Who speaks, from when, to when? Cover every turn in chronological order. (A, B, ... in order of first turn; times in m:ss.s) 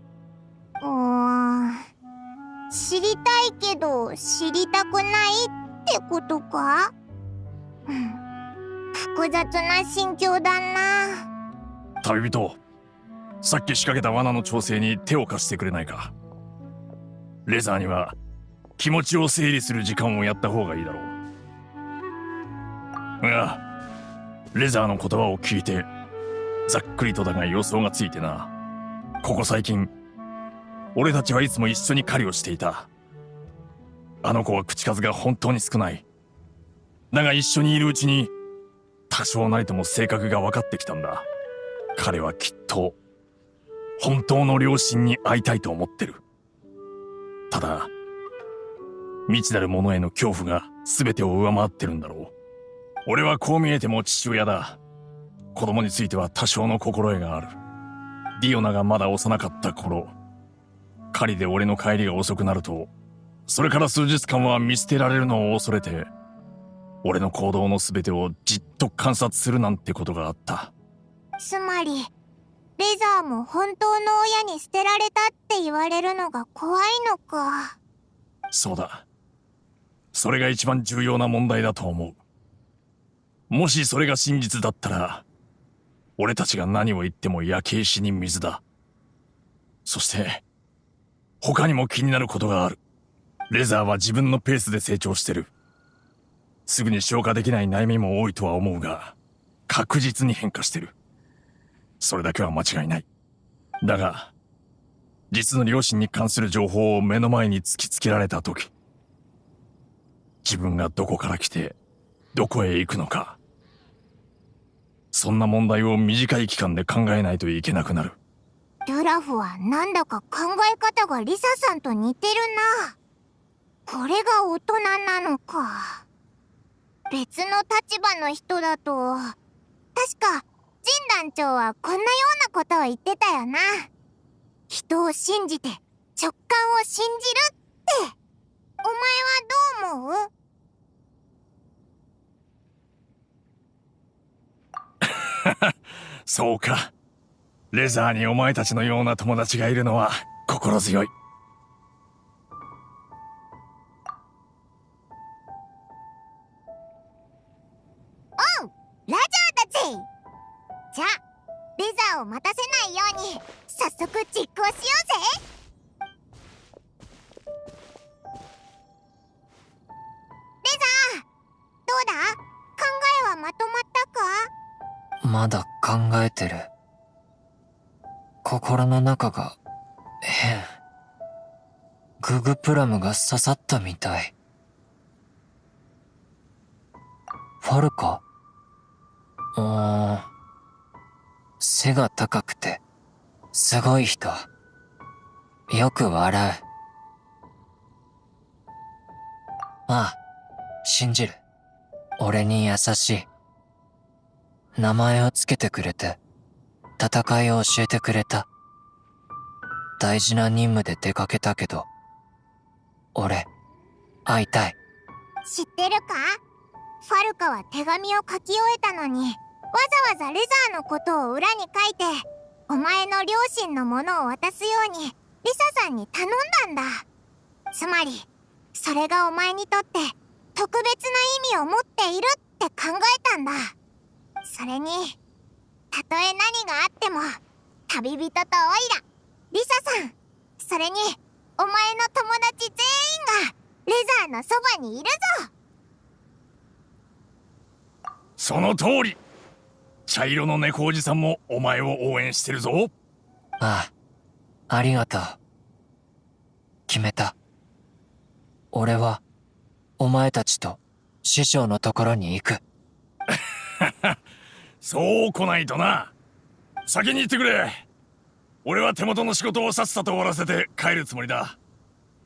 0:00.8-0:01.8 A
0:02.7-0:06.9 A
0:07.9-0:08.2 A
0:08.9-0:11.2 A
0:12.0-0:12.6 B
0:13.4-0:16.1 B
0:17.4-0:18.2 B
0:18.8-0:21.1 B
0:23.2-0:23.6 B
0:24.5-0:25.9 B
0:26.7-0:28.5 B
0:29.2-0:29.9 B
0:30.9-0:32.9 B
0:34.2-0:36.0 B
0:37.1-0:38.3 B
0:39.1-0:41.2 B
0:42.0-0:43.0 B
0:44.0-0:46.2 B
0:47.5-0:47.9 B
0:49.3-0:52.3 B
0:53.0-0:54.8 B
0:55.5-0:57.5 B
0:58.4-1:00.1 B
1:01.1-1:02.9 B
1:03.5-1:06.1 B
1:07.0-1:10.7 B
1:11.4-1:12.1 A
1:12.8-1:17.8 A
1:18.5-1:19.0 B
1:20.1-1:22.2 B
1:23.5-1:25.2 B
1:26.2-1:28.6 B
1:29.8-1:30.4 B
1:31.4-1:32.8 B
1:33.5-1:35.5 B
1:36.7-1:39.1 B
1:39.7-1:40.9 B
1:42.0-1:43.0 B
1:43.8-1:44.3 B
1:45.3-1:48.7 B
1:50.4-1:51.8 B
1:52.3-1:53.4 B
1:55.1-1:58.2 B
1:58.8-2:02.9 A
2:03.9-2:06.0 A
2:07.1-2:09.3 A
2:10.0-2:13.9 A
2:14.7-2:18.1 A
2:18.8-2:20.3 A
2:25.1-2:25.7 B
2:26.2-2:26.9 B
2:27.7-2:31.1 B
2:38.4-2:40.1 A
2:40.9-2:41.2 A
2:41.8-2:45.4 A
2:50.6-2:51.2 A
2:51.9-2:54.5 A
2:55.2-2:56.7 C
2:58.4-2:59.6 C
3:00.2-3:00.7 C
3:02.2-3:04.3 C
3:07.6-3:08.2 C
3:09.5-3:10.3 C
3:11.6-3:12.8 C
3:13.5-3:14.5 C
3:15.7-3:16.6 C
3:19.9-3:20.2 C
3:20.8-3:21.4 C
3:22.2-3:23.3 C
3:24.7-3:26.2 C
3:27.0-3:28.5 C
3:30.0-3:31.9 C
3:33.1-3:33.5 C
3:34.2-3:34.8 C
3:35.4-3:36.4 A
3:37.0-3:47.0 A
3:47.7-3:53.7 A
3:54.4-3:55.2 A
3:55.9-4:05.5 A
4:08.4-4:09.2 B
4:10.1-4:12.9 B
4:13.6-4:13.9 C
4:14.7-4:15.4 C
4:16.9-4:17.3 C
4:18.7-4:19.2 C
4:20.0-4:22.6 C
4:23.8-4:24.2 B
4:24.8-4:26.1 B
4:26.8-4:27.8 B
4:28.6-4:31.6 B